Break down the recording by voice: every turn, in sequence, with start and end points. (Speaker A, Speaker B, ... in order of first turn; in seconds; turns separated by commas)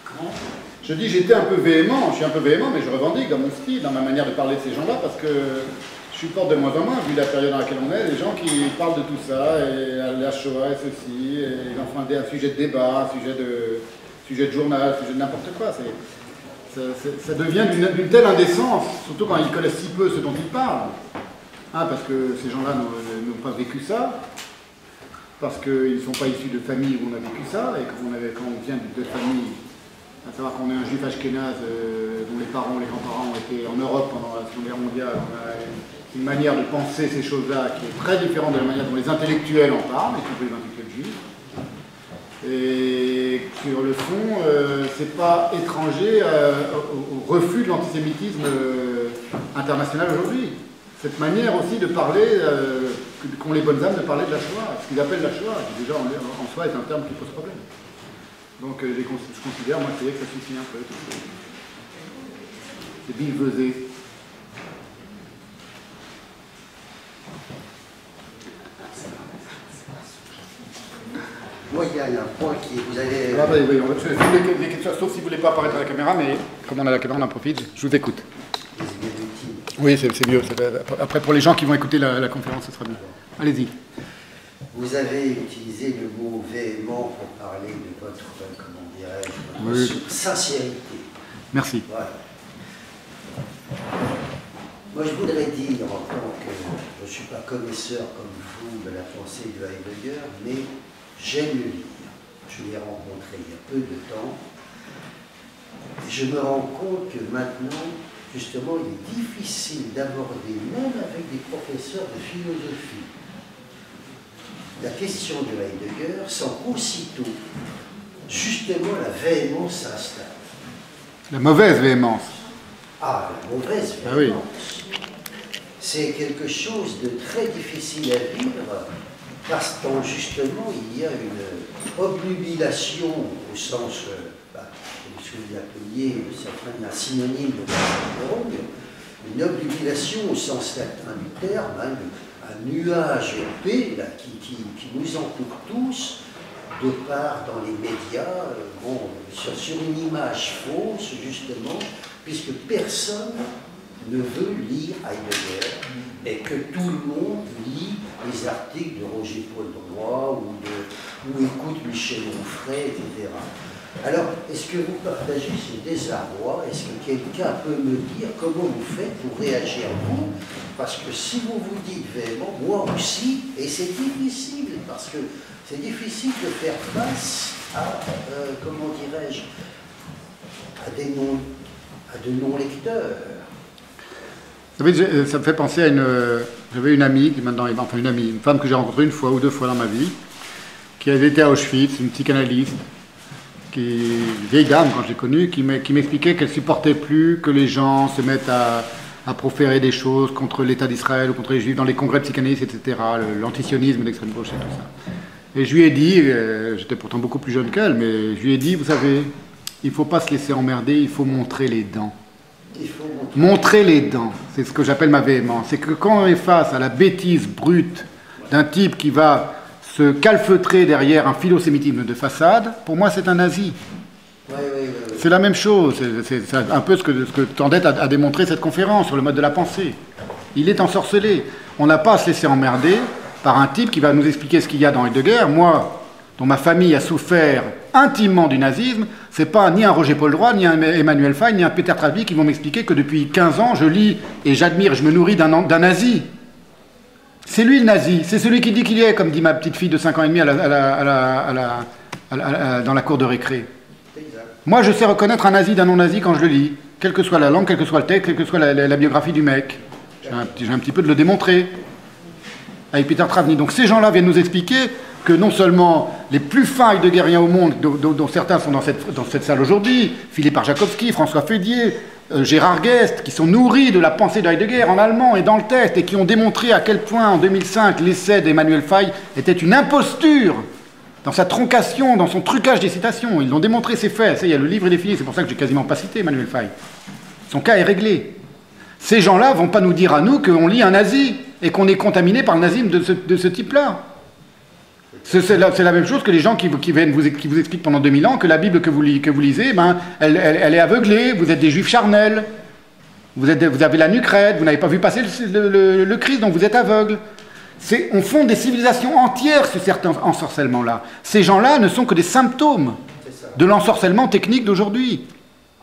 Speaker A: 0.8-16.0, Speaker A: 16.7-20.9, Speaker A: 21.7-24.2, Speaker A: 25.4-29.6, Speaker A: 30.2-41.2, Speaker A: 42.4-57.6, Speaker A: 58.6-61.2, Speaker A: 63.0-63.8, Speaker B: 71.7-73.6, Speaker A: 73.3-78.2, Speaker B: 78.8-79.7, Speaker A: 79.8-83.7, Speaker B: 84.7-91.1, Speaker A: 89.6-90.0, Speaker A: 91.5-91.8, Speaker B: 91.8-92.1, Speaker B: 94.9-104.4, Speaker B: 106.0-113.1, Speaker B: 114.8-117.4, Speaker B: 118.3-120.4, Speaker A: 121.3-122.3, Speaker B: 123.0-124.9, Speaker A: 124.0-124.4, Speaker B: 125.8-128.8, Speaker B: 129.4-138.6, Speaker B: 139.2-146.2, Speaker B: 146.7-153.5, Speaker B: 154.0-163.4, Speaker B: 164.0-179.5, Speaker B: 180.8-181.4, Speaker B: 182.1-183.4, Speaker A: 184.8-190.1, Speaker A: 191.0-192.8, Speaker A: 193.7-204.9, Speaker A: 205.5-209.3, Speaker A: 209.8-212.1, Speaker B: 212.7-213.7, Speaker A: 213.3-223.8, Speaker B: 224.5-225.3, Speaker A: 225.2-230.0, Speaker A: 230.5-246.2, Speaker A: 247.4-253.7, Speaker B: 254.1-254.5, Speaker A: 254.6-261.7, Speaker A: 262.9-280.6, Speaker A: 281.2-286.7, Speaker A: 287.5-288.4, Speaker A: 289.0-294.0, Speaker A: 295.2-302.4, Speaker A: 303.3-307.2, Speaker A: 307.8-313.0, Speaker B: 313.2-313.6, Speaker A: 313.6-315.2